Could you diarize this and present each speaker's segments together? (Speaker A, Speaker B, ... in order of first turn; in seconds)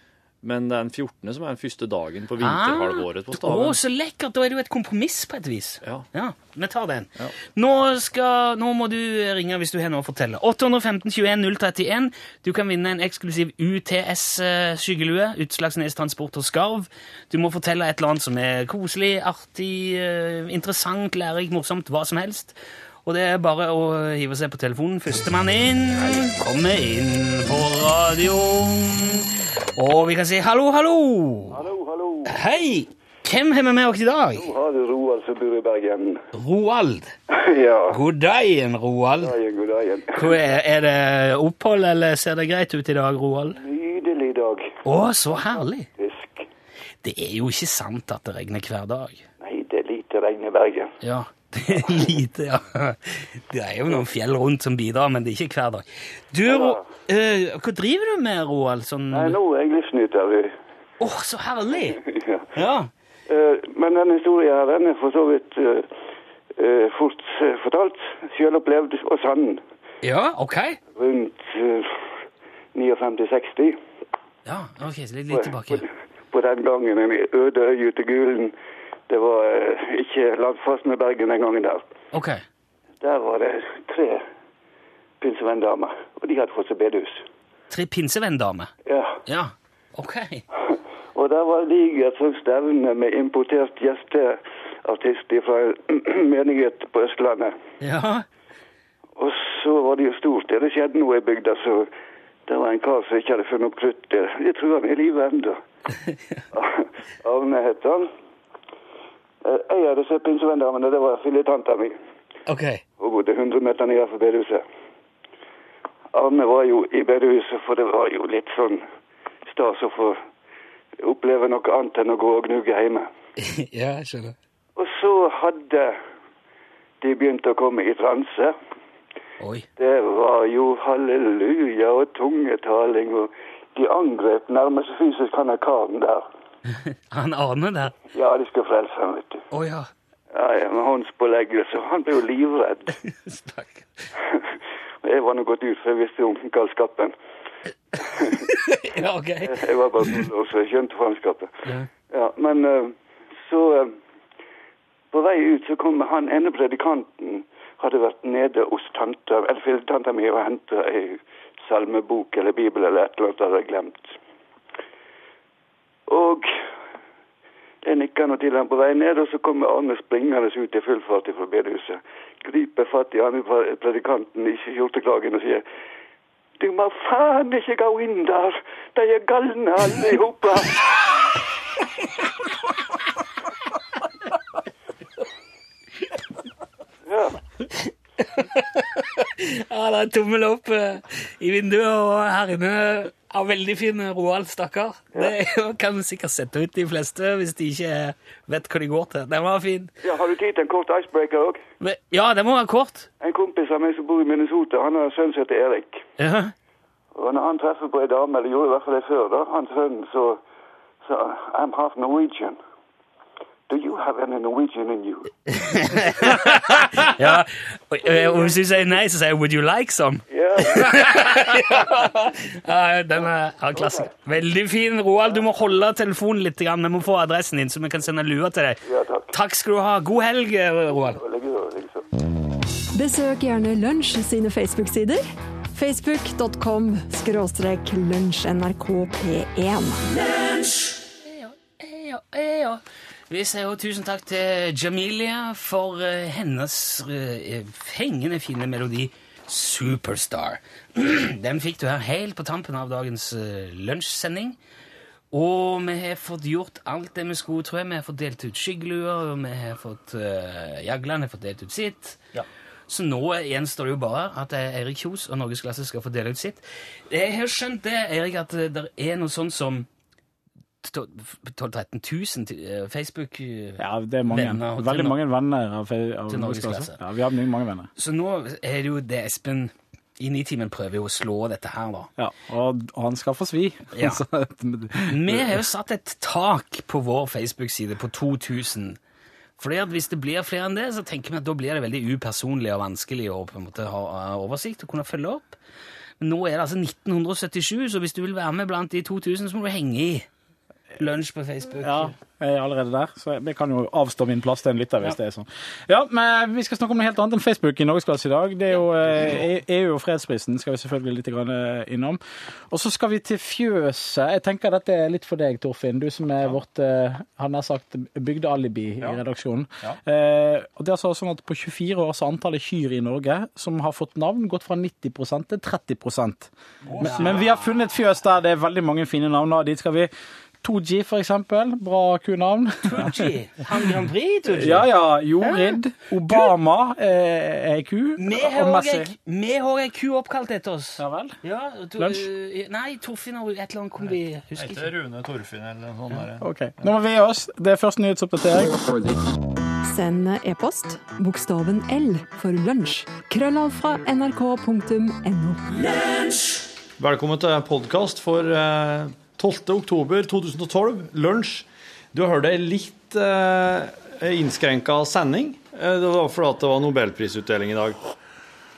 Speaker A: 0.4-3.8, 327.2-327.5, 344.6-346.9, 357.0-368.0
Speaker B: 2.4-31.6, 32.2-34.5, 36.3-37.1, 37.9-39.3, 40.1-43.6, 44.8-45.9, 47.0-49.2, 51.0-59.4, 61.0-62.0, 62.5-62.9, 70.0-70.8, 74.5-75.9, 82.1-82.4, 87.7-88.7, 89.2-90.4, 97.8-98.2, 112.5-112.8, 123.4-124.3, 129.4-129.7, 136.7-138.0, 139.5-139.9, 143.1-143.9, 148.3-150.2, 188.2-199.9, 201.8-203.1, 206.2-206.5, 215.5-231.2, 240.1-254.6, 255.3-262.2, 262.9-269.9, 270.8-275.2, 276.3-277.0, 278.0-282.1, 283.9-284.2, 285.1-289.0, 289.6-295.6, 296.2-300.3, 301.0-302.1, 326.9-327.4, 332.8-334.9, 335.4-335.8, 338.2-344.9
Speaker C: 31.5-32.4, 34.4-36.2, 37.3-38.0, 39.2-40.3, 43.6-44.8, 45.9-46.5, 49.4-50.9, 56.5-56.8, 59.1-60.5, 62.0-62.4, 63.3-65.9, 66.5-69.6, 71.0-72.0, 72.7-73.8, 75.3-78.5, 79.1-81.8, 83.0-84.2, 85.2-87.2, 88.8-89.2, 91.1-97.5, 99.2-101.9, 102.5-105.6, 106.5-108.1, 109.4-112.0, 113.0-114.6, 116.1-118.8, 119.5-120.2, 121.0-123.1, 124.8-126.0, 127.0-128.5, 129.8-136.2, 138.1-139.4, 140.3-143.0, 145.0-147.1, 148.1-148.4, 149.4-151.6, 152.1-153.9, 155.1-164.2, 166.1-166.5, 167.8-175.6, 176.6-180.9, 187.1-187.4, 200.0-201.6, 203.2-206.0, 207.1-210.4, 211.0-212.6, 213.7-215.3, 220.3-221.3, 223.8-224.0, 228.9-229.2, 231.1-232.1
Speaker D: 232.9-240.1, 349.8-355.9
Speaker E: 273.8-277.9, 282.2-285.6, 301.8-330.1, 330.6-333.9, 334.5-339.1, 341.0-341.4, 342.0-342.2, 346.4-349.1